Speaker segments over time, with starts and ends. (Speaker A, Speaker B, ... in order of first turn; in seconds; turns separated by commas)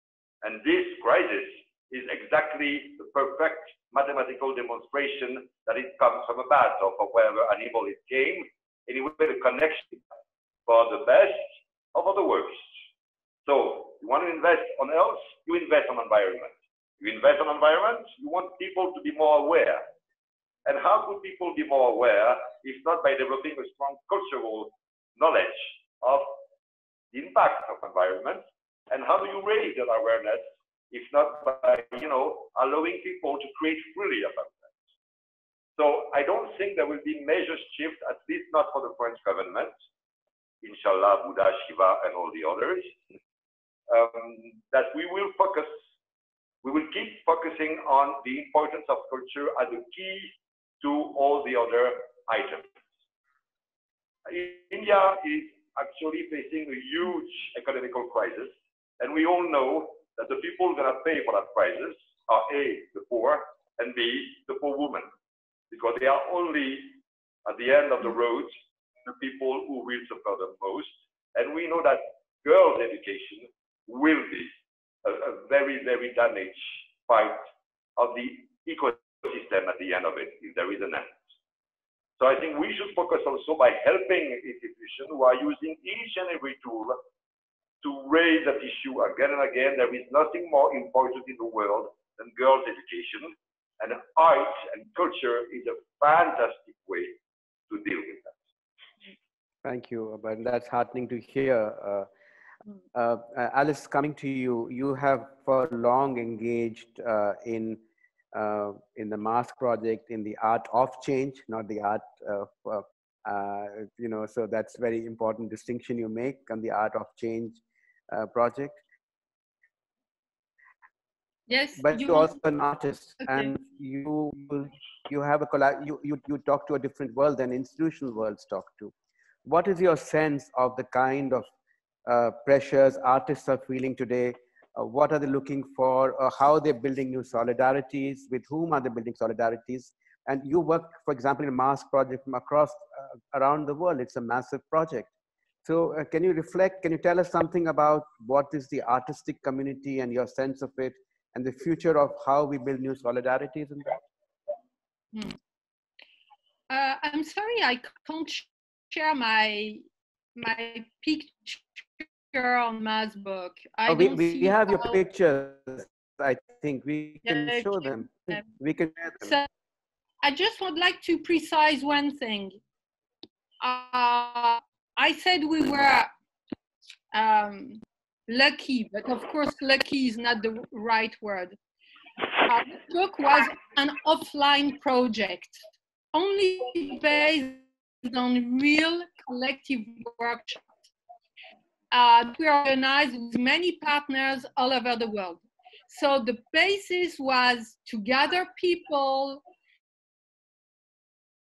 Speaker A: 0.4-10.0, Speaker A: 10.7-12.6, Speaker A: 13.4-19.9, Speaker A: 20.6-26.3, Speaker A: 27.1-34.7, Speaker A: 35.8-39.7, Speaker A: 40.6-43.0, Speaker A: 43.9-45.7, Speaker A: 46.6-50.3, Speaker A: 50.8-52.7, Speaker A: 54.2-65.1, Speaker A: 65.7-74.5, Speaker A: 75.0-81.2, Speaker A: 82.2-87.0, Speaker A: 87.8-97.2, Speaker A: 97.7-98.3, Speaker B: 99.6-102.1, Speaker B: 102.9-107.8, Speaker B: 108.3-118.8, Speaker C: 121.5-122.3, Speaker B: 121.8-128.9, Speaker C: 123.2-123.5, Speaker B: 129.4-131.5, Speaker B: 132.0-145.1, Speaker B: 145.6-154.0, Speaker C: 156.7-159.8, Speaker C: 160.3-165.0, Speaker B: 163.9-169.3, Speaker C: 167.2-167.8, Speaker C: 170.2-172.6, Speaker C: 173.6-176.1, Speaker C: 177.1-181.6, Speaker C: 182.4-185.6, Speaker C: 186.1-190.7, Speaker C: 191.9-199.4